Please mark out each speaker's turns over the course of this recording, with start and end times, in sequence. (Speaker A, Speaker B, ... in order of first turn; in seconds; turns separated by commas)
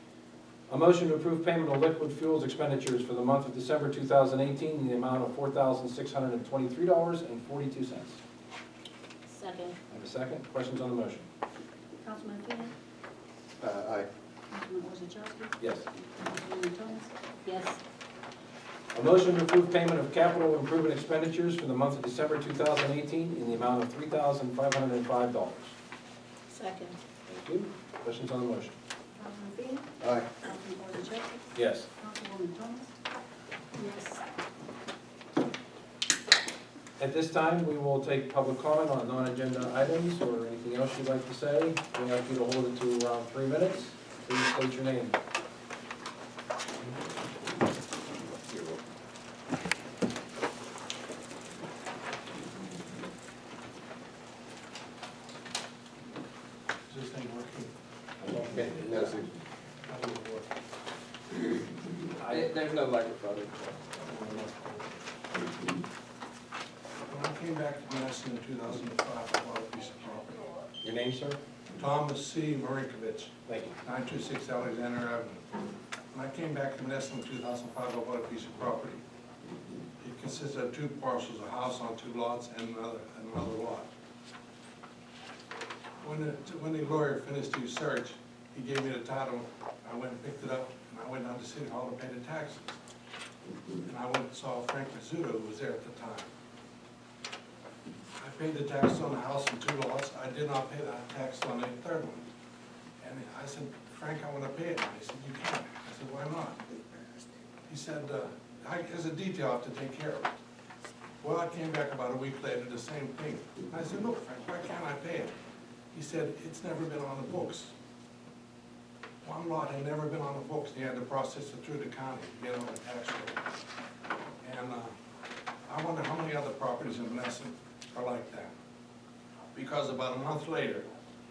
Speaker A: 0.7-8.2, Speaker B: 9.3-9.8, Speaker A: 9.9-11.2, Speaker C: 12.0-12.7, Speaker D: 13.6-14.1, Speaker C: 14.5-17.1, Speaker A: 15.6-15.9, Speaker B: 17.4-17.8, Speaker A: 18.9-25.7, Speaker B: 26.5-27.0, Speaker A: 27.3-28.7, Speaker C: 29.1-33.0, Speaker D: 30.0-30.3, Speaker A: 31.5-31.9, Speaker B: 33.7-34.2, Speaker A: 37.0-45.1, Speaker E: 56.9-57.7, Speaker D: 58.2-59.3, Speaker E: 59.8-60.5, Speaker D: 62.3-63.6, Speaker E: 64.0-64.8, Speaker E: 67.0-70.5, Speaker A: 70.8-71.4, Speaker E: 71.7-75.4, Speaker A: 73.5-73.8, Speaker E: 76.1-79.0, Speaker E: 80.0-83.9, Speaker E: 86.0-92.7, Speaker E: 93.8-96.3, Speaker E: 98.2-102.3, Speaker E: 103.0-106.7, Speaker E: 107.7-110.3, Speaker E: 111.2-115.3, Speaker E: 115.9-117.7, Speaker E: 119.2-123.4, Speaker E: 124.4-124.9, Speaker E: 125.7-128.5, Speaker E: 129.5-130.9